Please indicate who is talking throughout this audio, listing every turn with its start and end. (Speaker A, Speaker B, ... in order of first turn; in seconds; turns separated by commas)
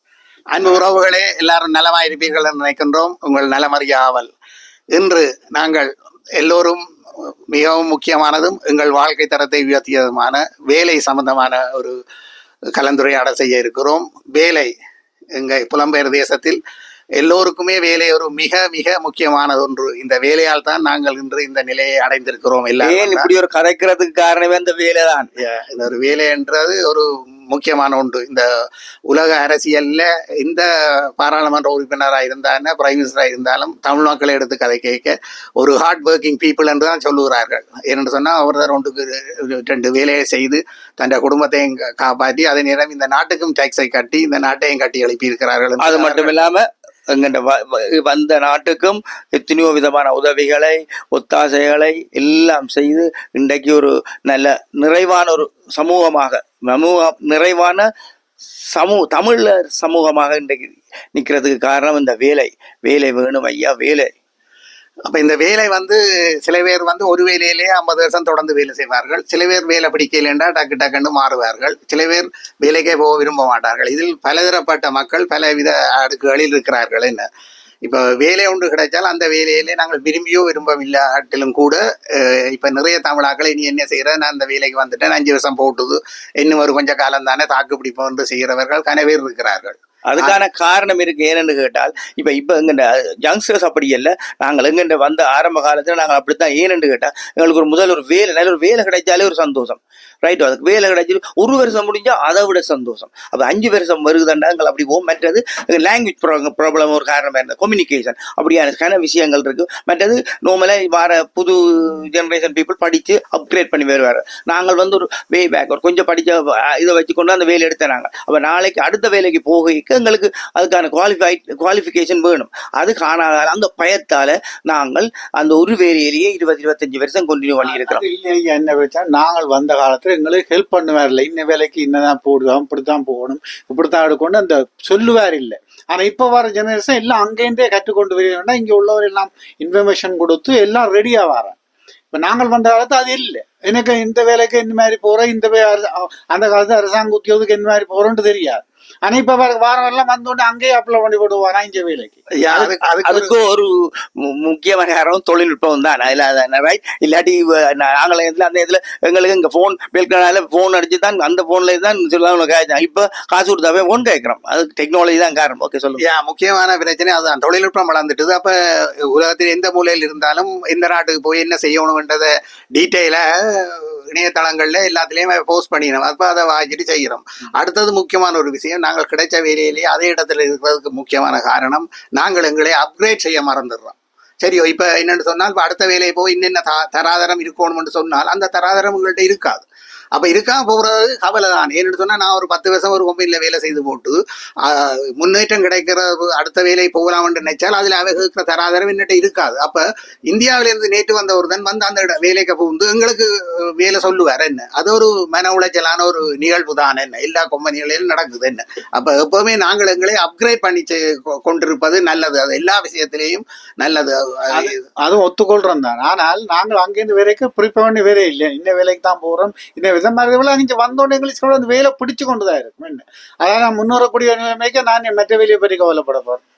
Speaker A: 0.5-4.3, Speaker A: 4.9-6.8, Speaker A: 7.5-11.9, Speaker A: 12.8-14.7, Speaker A: 15.3-16.6, Speaker A: 17.2-23.3, Speaker B: 22.8-25.3, Speaker A: 25.4-28.4, Speaker A: 29.1-46.3, Speaker B: 45.8-57.9, Speaker B: 58.7-64.1, Speaker A: 65.1-77.3, Speaker A: 77.8-90.4, Speaker B: 90.1-128.0, Speaker C: 127.6-141.6, Speaker C: 142.1-152.2, Speaker A: 152.4-153.3, Speaker B: 152.5-153.7, Speaker B: 154.3-166.0, Speaker A: 166.0-214.8, Speaker C: 214.5-226.4